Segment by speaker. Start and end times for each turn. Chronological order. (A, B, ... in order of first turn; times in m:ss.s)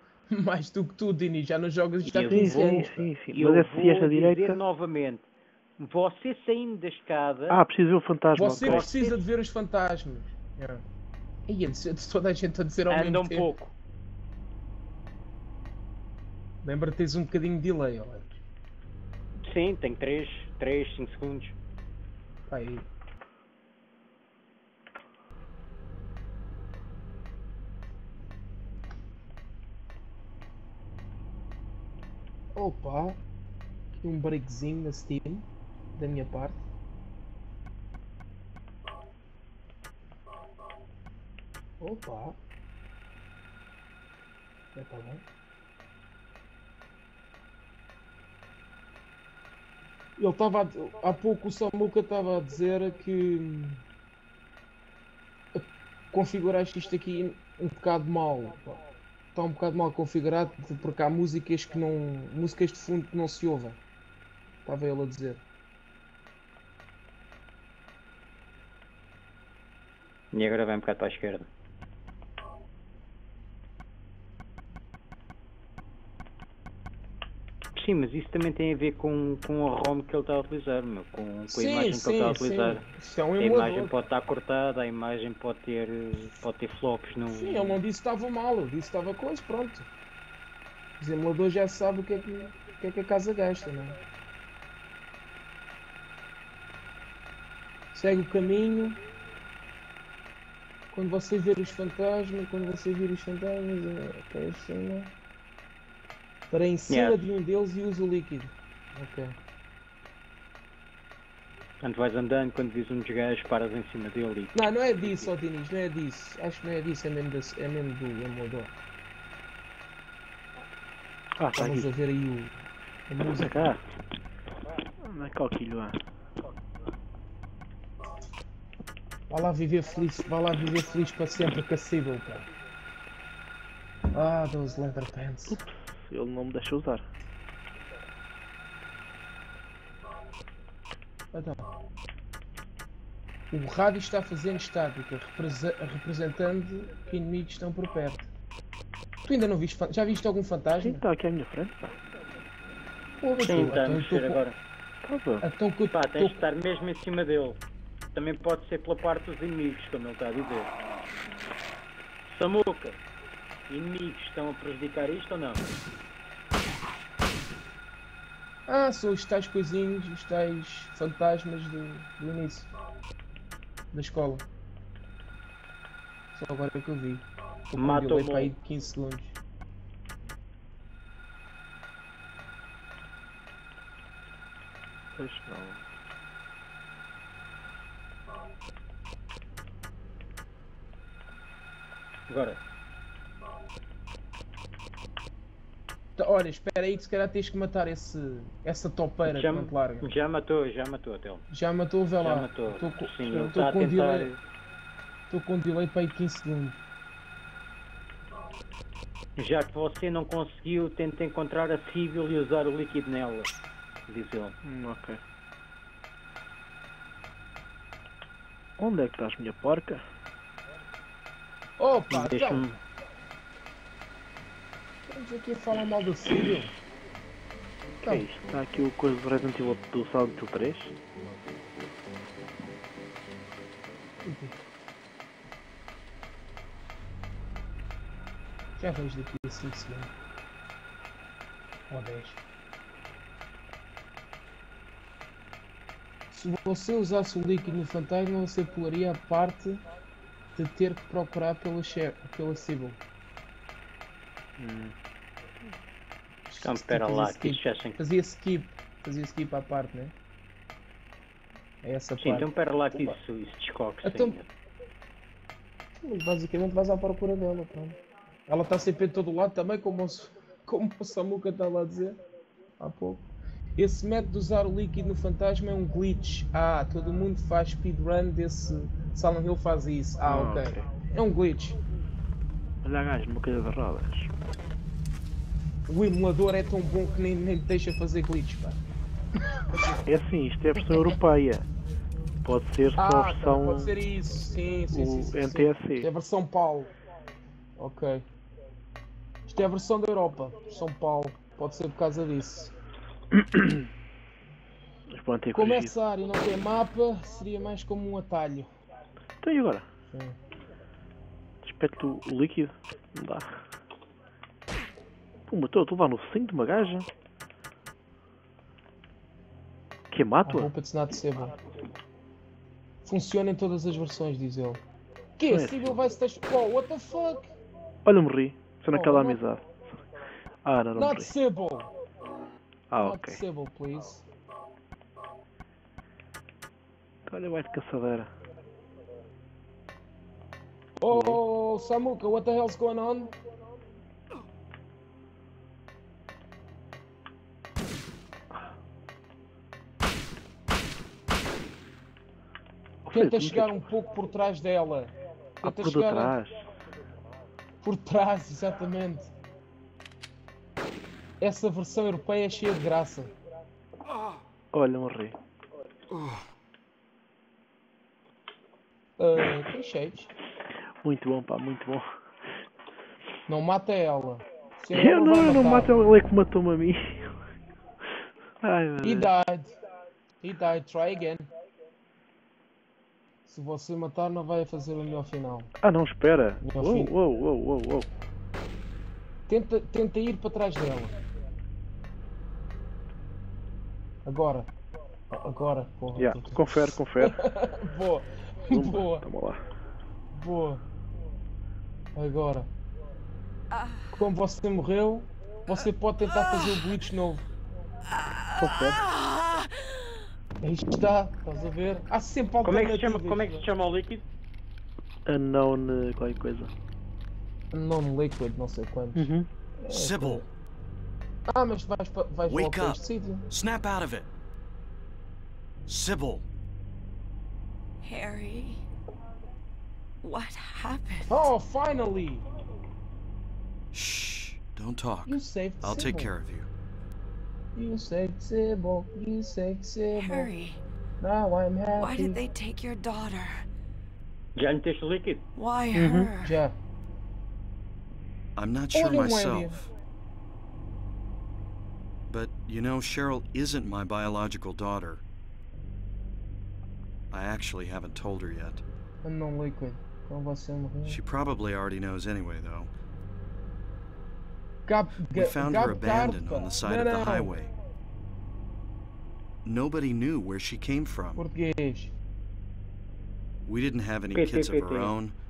0:00.3-0:03.1 A
0:02.1-0:04.6 B
0:02.2-0:02.8 C
0:03.3-0:05.2 C
0:05.8-0:07.6 C
0:07.5-0:08.9 B
0:08.4-0:10.8 A
0:08.6-0:09.2 C
0:11.5-0:13.5 A
0:12.9-0:13.7 C
0:16.6-0:18.4 A
0:19.4-0:21.6 C
0:22.5-0:22.9 A
0:32.6-0:33.2 A
0:34.0-0:36.6 A
0:41.8-0:42.4 A
0:44.7-0:45.2 A
0:50.2-0:53.8 A
0:55.5-0:58.8 A
0:59.3-1:03.8 A
1:04.6-1:05.4 A
1:10.3-1:11.5 C
1:17.8-1:22.8 C
1:21.5-1:23.9 A
1:23.4-1:27.8 C
1:27.3-1:29.9 A
1:31.0-1:34.0 A
1:37.9-1:39.0 A
1:40.9-1:45.1 A
1:46.5-1:49.4 A
1:46.9-1:47.2 C
1:51.8-1:55.3 C
1:54.5-1:58.7 A
2:01.4-2:01.9 B
2:01.5-2:02.6 A
2:03.1-2:03.6 A
2:03.4-2:03.8 B
2:05.0-2:06.0 B
2:09.3-2:12.5 A
2:14.1-2:15.6 A
2:15.5-2:17.1 B
2:21.3-2:21.7 A
2:23.5-2:28.3 A
2:29.2-2:31.0 A
2:30.8-2:32.0 B
2:33.2-2:34.4 A
2:33.4-2:34.6 C
2:35.0-2:35.5 B
2:35.4-2:36.4 A
2:35.9-2:37.6 C
2:38.1-2:40.7 C
2:42.3-2:43.0 C
2:43.7-2:45.7 C
2:48.7-2:52.7 A
2:53.9-2:54.5 A
2:56.3-2:59.4 A
2:57.8-2:58.5 C
3:05.2-3:05.8 B
3:12.3-3:12.6 C
3:16.2-3:20.1 A
3:19.3-3:21.4 C
3:21.5-3:24.3 A
3:22.2-3:24.4 C
3:25.3-3:26.8 A
3:29.4-3:33.6 C
3:34.1-3:34.6 C
3:34.6-3:35.2 B
3:38.8-3:40.0 B
3:41.8-3:42.7 A
3:42.1-3:42.8 C
3:45.1-3:46.7 A
3:48.0-3:50.9 B
3:54.2-3:54.6 A
3:58.8-4:00.1 A
4:01.9-4:02.4 A
4:06.3-4:09.8 A
4:10.6-4:13.0 A
4:14.6-4:14.9 C
4:16.5-4:20.1 A
4:16.6-4:18.0 C
4:21.8-4:23.2 A
4:22.2-4:24.5 C
4:24.0-4:24.4 A
4:26.0-4:32.2 A
4:32.8-4:41.8 A
4:40.3-4:40.8 B
4:42.8-4:44.3 B
4:45.9-4:48.8 A
4:49.4-4:50.0 A
4:50.1-4:51.7 B
4:50.8-4:51.2 A
4:52.4-4:54.0 B
4:53.0-4:56.9 A
4:54.9-4:56.1 B
4:57.8-4:58.3 A
4:59.5-5:02.7 A
5:03.3-5:03.9 B
5:05.1-5:05.9 B
5:05.5-5:08.7 A
5:09.4-5:09.9 B
5:10.1-5:10.4 A
5:11.6-5:13.6 B
5:15.5-5:17.1 B
5:20.1-5:20.7 B
5:20.4-5:21.6 A
5:23.0-5:24.8 A
5:25.4-5:27.5 A
5:25.5-5:26.0 B
5:28.0-5:29.7 B
5:28.9-5:29.4 A
5:30.6-5:31.3 B
5:30.9-5:31.9 A
5:32.9-5:33.4 B
5:33.0-5:34.2 A
5:37.3-5:38.3 B
5:41.0-5:43.4 A
5:41.1-5:41.4 B
5:53.0-5:53.8 B
5:53.1-5:56.3 A
5:55.6-5:56.6 B
5:57.8-5:59.3 A
6:01.4-6:03.3 A
6:04.7-6:05.4 B
6:09.2-6:10.3 A
6:11.0-6:12.1 B
6:13.5-6:15.9 A
6:14.9-6:17.4 B
6:18.6-6:19.3 B
6:19.0-6:19.8 A
6:20.4-6:21.5 A
6:23.5-6:25.7 A
6:25.8-6:28.1 B
6:26.6-6:27.1 A
6:29.5-6:31.2 A
6:34.2-6:34.7 A
6:35.3-6:39.3 A
6:36.2-6:37.4 B
6:38.7-6:39.6 B
6:40.3-6:40.8 A
6:42.2-6:42.7 A
6:43.7-6:44.2 D
6:44.1-6:47.5 A
6:48.2-6:50.0 D
6:48.6-6:49.0 B
6:50.6-6:53.6 A
6:52.6-6:54.2 C
6:55.3-6:56.7 B
6:57.7-7:00.5 A
6:59.2-6:59.5 B
6:59.9-7:00.5 E
7:01.5-7:03.5 A
7:02.5-7:04.3 E
7:05.9-7:06.5 E
7:08.0-7:08.8 D
7:10.2-7:11.5 D
7:11.3-7:12.4 A
7:13.9-7:16.7 E
7:15.2-7:16.3 A
7:17.8-7:20.5 A
7:20.2-7:20.8 D
7:21.2-7:22.4 A
7:22.0-7:23.6 D
7:24.6-7:25.4 C
7:25.6-7:26.6 D
7:26.0-7:26.3 B
7:26.4-7:26.8 A
7:28.6-7:29.9 E
7:28.9-7:29.8 A
7:32.3-7:35.2 E
7:37.3-7:38.8 E
7:39.2-7:41.2 A
7:41.1-7:42.9 E
7:44.9-7:47.5 A
7:45.3-7:47.7 E
7:49.6-7:51.4 E
7:51.4-7:52.1 A
7:53.7-7:55.4 E
7:54.3-7:55.1 C